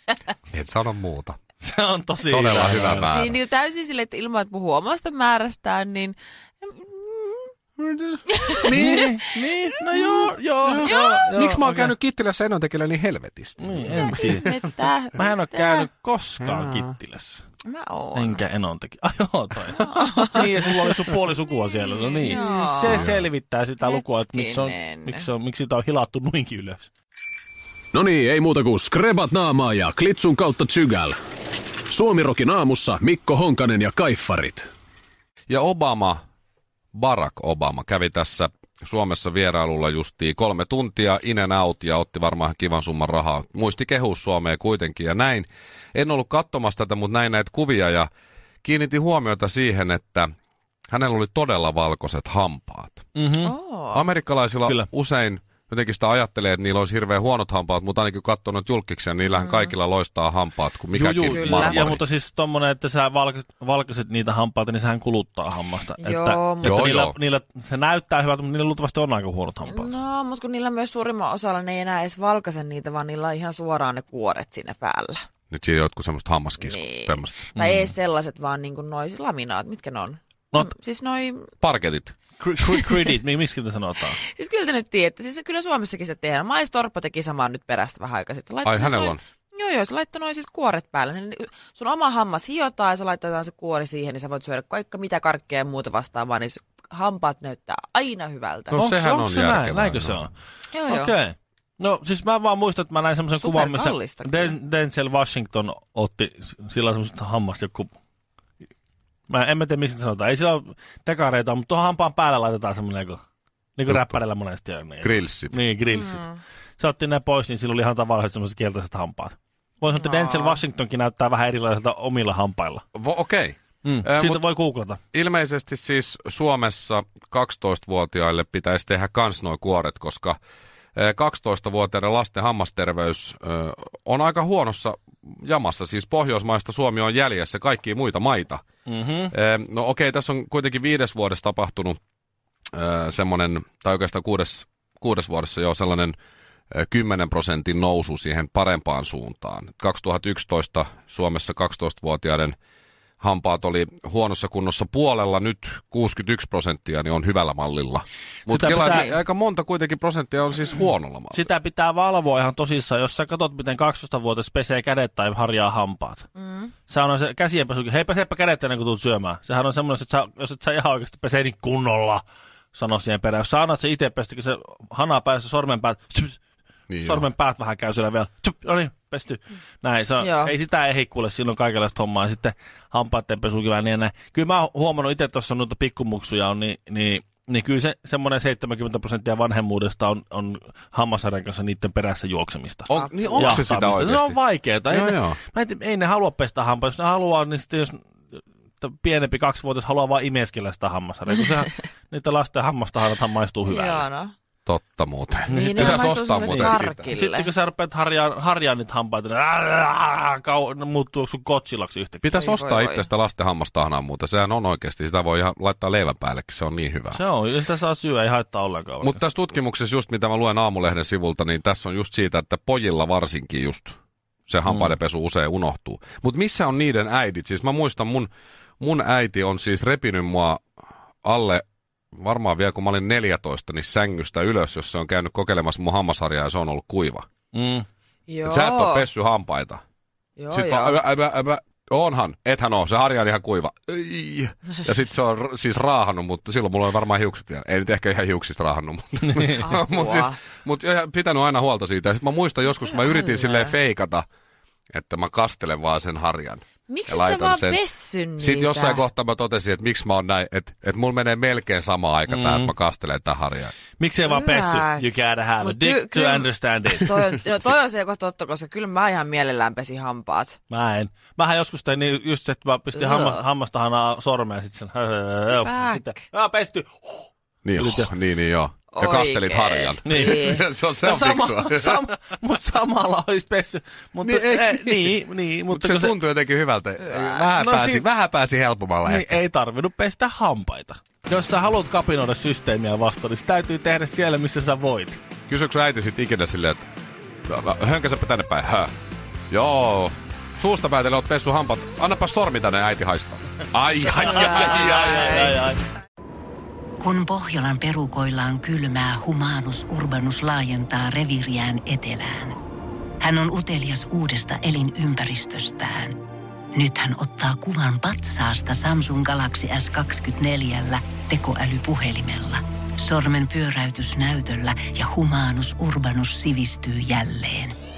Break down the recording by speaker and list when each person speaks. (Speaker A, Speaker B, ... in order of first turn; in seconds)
Speaker A: 0.5-1.4, 2.3-3.3, 7.8-9.1, 10.6-14.3, 16.5-16.8, 22.9-23.3, 35.5-36.2, 36.9-48.1, 48.6-50.3, 50.9-53.1, 53.9-62.0, 66.6-67.2, 75.5-77.5, 81.6-82.1, 88.6-89.2, 98.7-100.2, 113.9-114.2, 115.0-115.6, 122.9-124.4, 125.1-130.4, 130.9-138.6, 139.3-142.0, 142.7-146.2, 146.7-152.6, 153.2-161.5, 176.9-177.3, 192.9-194.4, 194.9-195.4, 204.7-207.1, 212.2-217.2, 219.0-223.9, 224.5-230.7, 231.2-237.3, 238.4-239.8, 240.5-254.2, 254.9-257.8, 258.4-263.7, 277.6-282.0, 284.2-289.3, 295.5-296.9, 297.5-298.9, 299.5-305.5
Speaker B: 1.6-3.1, 8.6-11.9, 13.6-14.5, 15.1-17.4, 18.1-26.9, 53.1-53.5, 60.9-69.9, 77.5-77.9, 82.4-84.2, 98.7-100.3, 100.8-107.9, 109.3-113.2, 113.8-116.2, 116.8-122.8, 123.8-125.0, 138.9-139.3, 158.5-159.1, 161.3-166.3, 166.9-172.2, 172.7-176.3, 177.0-198.1, 198.8-204.1, 205.5-212.3, 217.1-219.2, 237.5-237.9, 262.3-262.7, 264.0-267.1, 270.7-277.2, 277.8-278.1, 280.1-286.2, 287.4-288.0, 289.0-295.2, 304.3-305.8
Speaker C: 2.9-7.5, 8.3-9.3, 9.9-10.3, 10.8-11.2, 14.1-15.9, 17.6-18.4, 19.8-20.4, 22.1-23.0, 23.8-25.2, 53.4-54.0, 59.3-59.7, 61.2-61.9, 66.0-66.8, 69.7-75.2, 76.6-81.5, 84.2-98.8, 100.7-101.2, 103.4-104.5, 115.9-116.4, 119.9-120.6, 166.4-166.7, 180.2-180.5, 192.9-193.6, 203.6-204.3, 205.5-207.5, 212.3-213.1, 238.3-239.1, 240.4-241.0, 249.6-250.4, 252.9-253.7, 256.9-259.0, 264.2-265.1, 265.6-270.6, 272.9-273.4, 275.5-276.2, 278.9-280.6, 304.2-305.5
Speaker D: 27.9-31.2, 31.9-34.7
Speaker E: 307.0-312.6, 313.2-316.2, 316.7-327.7